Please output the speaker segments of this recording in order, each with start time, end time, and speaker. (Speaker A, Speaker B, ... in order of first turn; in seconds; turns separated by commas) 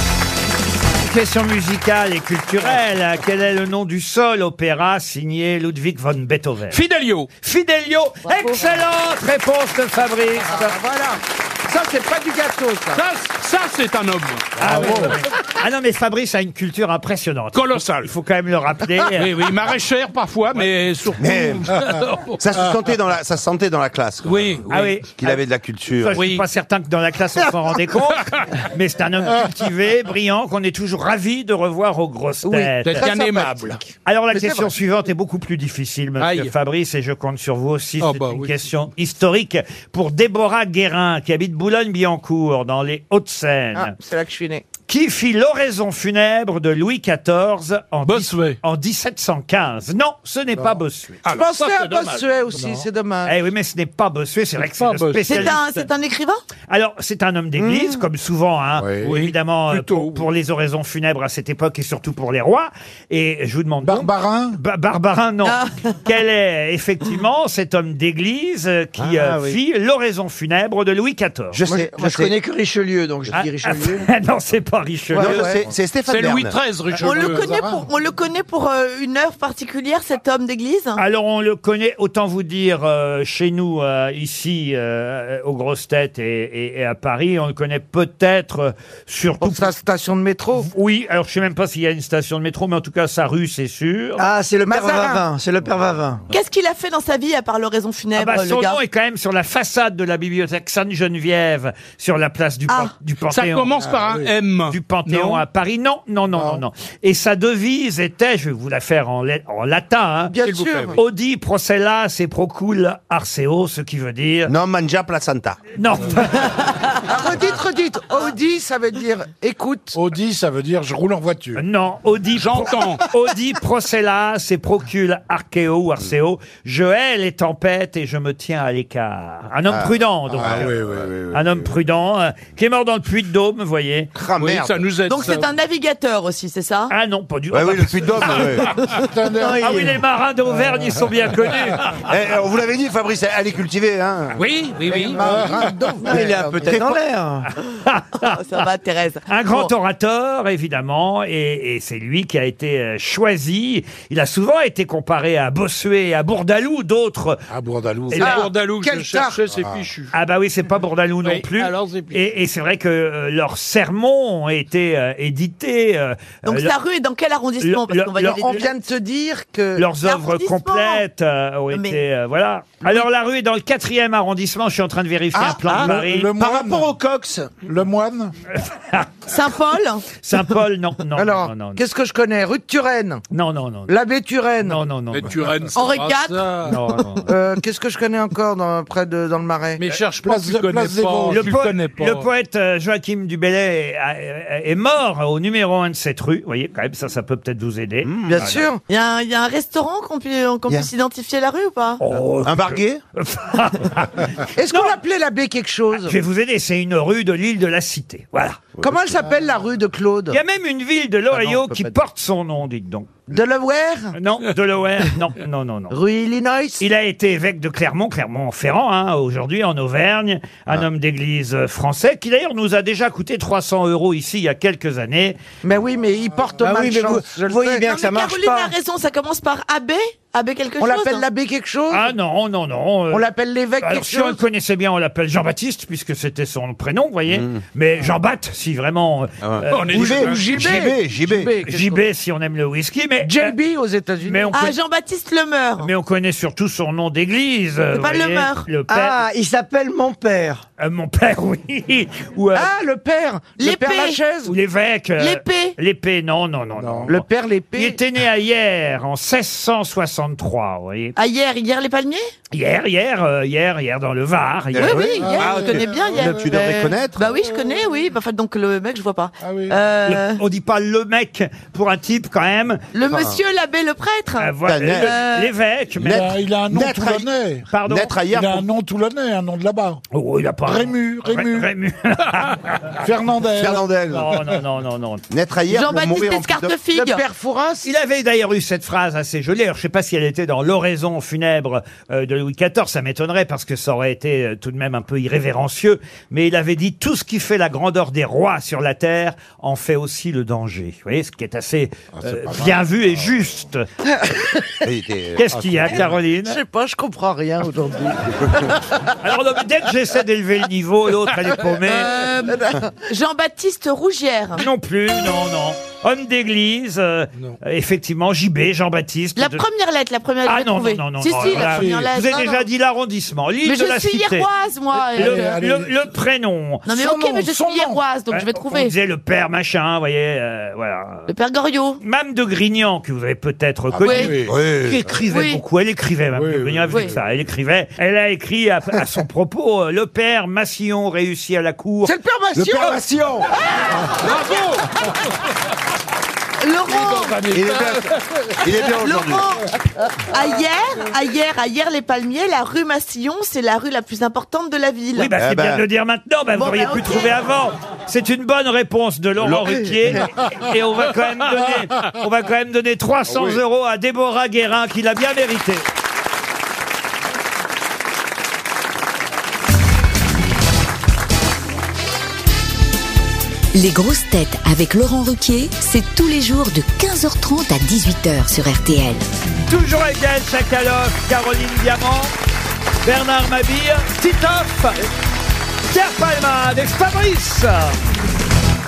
Speaker A: 1.0-6.8, Speaker B: 6.7-7.3, Speaker A: 7.4-10.8, Speaker C: 8.3-8.6, Speaker C: 10.5-13.0, Speaker B: 12.9-15.1, Speaker A: 14.6-19.3, Speaker D: 14.6-15.1, Speaker B: 17.5-18.1, Speaker B: 19.1-22.4, Speaker E: 21.2-21.8, Speaker E: 22.4-24.6, Speaker B: 24.2-25.0, Speaker A: 24.7-25.4, Speaker E: 25.2-26.2, Speaker A: 26.0-33.1, Speaker B: 26.1-26.4, Speaker C: 32.4-33.8, Speaker B: 32.8-33.9, Speaker A: 34.0-43.9, Speaker C: 34.3-34.7, Speaker B: 36.2-36.5, Speaker B: 38.0-38.5, Speaker C: 43.8-44.6, Speaker A: 44.9-51.2, Speaker B: 48.0-48.6, Speaker B: 51.2-52.2, Speaker C: 51.3-53.4, Speaker D: 52.5-52.9, Speaker A: 53.2-55.8, Speaker B: 54.6-55.6, Speaker F: 55.2-56.4, Speaker A: 56.7-71.6, Speaker E: 57.6-58.0, Speaker D: 58.8-59.2, Speaker B: 59.0-60.2, Speaker D: 63.8-64.6, Speaker F: 65.4-65.9, Speaker E: 69.0-69.4, Speaker E: 71.5-72.4, Speaker G: 71.7-74.1, Speaker A: 73.3-75.5, Speaker G: 75.1-75.6, Speaker E: 75.2-76.5, Speaker C: 75.3-75.6, Speaker B: 76.0-77.5, Speaker F: 77.0-81.0, Speaker D: 77.0-77.9, Speaker A: 81.0-89.7, Speaker C: 89.4-90.7, Speaker A: 90.5-94.2, Speaker G: 94.2-96.2, Speaker C: 94.7-95.2, Speaker F: 96.3-98.8, Speaker A: 98.1-103.8, Speaker B: 103.3-105.4, Speaker D: 103.8-104.3, Speaker A: 104.7-110.4, Speaker D: 106.3-106.6, Speaker C: 110.3-111.0, Speaker B: 110.4-111.0, Speaker A: 110.9-114.5, Speaker E: 114.5-115.6, Speaker A: 115.8-116.6, Speaker C: 117.1-120.0, Speaker D: 119.9-121.6, Speaker A: 121.5-130.7, Speaker B: 122.4-123.0, Speaker E: 129.7-131.4, Speaker D: 130.3-131.4, Speaker A: 131.3-134.1, Speaker E: 134.2-134.8, Speaker B: 134.4-135.5, Speaker F: 135.1-136.9, Speaker A: 136.9-138.7, Speaker E: 137.5-138.8, Speaker D: 138.9-141.7, Speaker G: 139.4-139.9, Speaker A: 139.6-141.9, Speaker E: 142.1-145.0, Speaker B: 144.4-145.2, Speaker C: 144.9-146.9, Speaker D: 145.2-145.7, Speaker G: 146.0-147.5, Speaker A: 147.8-148.7, Speaker F: 148.2-149.7, Speaker A: 149.3-157.4, Speaker D: 157.5-158.5, Speaker B: 158.1-160.1, Speaker C: 158.2-159.4, Speaker D: 159.5-159.8, Speaker A: 160.1-166.7, Speaker B: 161.2-162.2, Speaker F: 166.4-168.7, Speaker A: 167.6-168.7, Speaker C: 168.2-169.9, Speaker A: 169.8-176.3, Speaker F: 170.0-171.0, Speaker F: 171.7-172.0, Speaker C: 175.3-175.9, Speaker D: 175.8-176.9, Speaker E: 175.8-177.5, Speaker D: 177.6-178.3, Speaker A: 178.6-179.1, Speaker F: 179.3-180.2, Speaker A: 180.2-181.8, Speaker C: 181.1-183.2, Speaker A: 183.3-183.9, Speaker C: 183.9-184.8, Speaker A: 184.6-185.4, Speaker B: 185.1-186.8, Speaker F: 185.7-187.2, Speaker A: 186.7-187.3, Speaker C: 187.2-189.8, Speaker B: 189.8-192.2, Speaker D: 190.2-191.5, Speaker A: 191.3-198.6, Speaker E: 198.0-198.6, Speaker C: 198.3-198.8, Speaker F: 198.9-202.0, Speaker A: 202.0-204.9, Speaker E: 202.4-203.0, Speaker C: 204.6-206.2, Speaker A: 205.9-208.6, Speaker E: 208.8-209.1, Speaker C: 208.8-210.4, Speaker A: 210.3-213.2, Speaker C: 211.3-212.0, Speaker C: 213.3-214.2, Speaker A: 214.1-216.0, Speaker C: 215.9-216.8, Speaker A: 216.8-225.4, Speaker C: 225.6-228.0, Speaker G: 226.6-228.7, Speaker F: 227.9-231.2, Speaker C: 230.8-232.1, Speaker A: 231.9-233.2, Speaker C: 233.1-234.4, Speaker A: 233.8-240.3, Speaker E: 237.3-237.6, Speaker E: 239.4-241.5, Speaker B: 239.7-240.5, Speaker C: 240.2-242.0, Speaker A: 241.7-243.6, Speaker C: 243.2-244.7, Speaker A: 244.2-244.7, Speaker F: 244.5-245.9, Speaker A: 245.8-249.2, Speaker F: 247.9-248.7, Speaker G: 248.9-250.6, Speaker A: 250.8-252.7, Speaker C: 252.5-254.6, Speaker F: 253.6-254.2, Speaker A: 254.4-261.1, Speaker F: 255.2-255.8, Speaker D: 256.8-257.1, Speaker C: 257.1-258.0, Speaker F: 261.1-262.3, Speaker A: 262.5-265.1, Speaker E: 264.7-267.2, Speaker F: 264.8-270.4, Speaker D: 265.1-266.9, Speaker D: 269.4-269.8, Speaker A: 270.1-272.8, Speaker F: 272.9-275.5, Speaker E: 273.1-273.4, Speaker A: 274.4-276.3, Speaker E: 274.6-275.3, Speaker E: 275.9-277.3, Speaker D: 276.0-277.7, Speaker A: 277.7-278.1, Speaker E: 277.9-278.6, Speaker D: 278.3-280.0, Speaker A: 280.1-282.9, Speaker D: 280.6-281.7, Speaker D: 283.0-283.9, Speaker E: 283.6-284.4, Speaker A: 284.1-285.2, Speaker E: 285.3-286.8, Speaker F: 285.7-287.2, Speaker C: 286.9-287.9, Speaker A: 287.8-303.9, Speaker D: 302.2-302.8, Speaker C: 304.1-304.6, Speaker E: 304.8-306.1, Speaker A: 305.4-306.6, Speaker D: 305.6-306.1, Speaker C: 306.4-308.9, Speaker E: 308.4-308.7, Speaker A: 309.2-312.1, Speaker F: 311.9-314.7, Speaker C: 312.1-312.9, Speaker A: 314.6-319.6, Speaker F: 319.4-322.6, Speaker A: 320.4-324.5, Speaker D: 321.5-322.1, Speaker F: 323.6-325.6, Speaker D: 325.0-326.0, Speaker A: 325.1-326.9, Speaker F: 326.9-328.9, Speaker D: 326.9-328.0, Speaker A: 328.3-331.3, Speaker F: 331.3-332.0, Speaker A: 332.0-342.1, Speaker D: 333.9-334.6, Speaker F: 334.0-334.4, Speaker E: 334.4-335.1, Speaker F: 335.3-335.6, Speaker D: 336.3-337.2, Speaker C: 342.0-343.0, Speaker E: 342.6-343.5, Speaker B: 344.2-344.8, Speaker F: 346.6-347.5, Speaker B: 346.9-348.0, Speaker E: 347.5-349.5, Speaker F: 348.9-349.7, Speaker F: 350.3-355.4, Speaker A: 355.1-365.9, Speaker E: 355.4-355.8, Speaker F: 356.6-357.4, Speaker H: 373.7-379.2, Speaker A: 379.7-382.3, Speaker A: 383.0-385.0, Speaker A: 385.9-387.9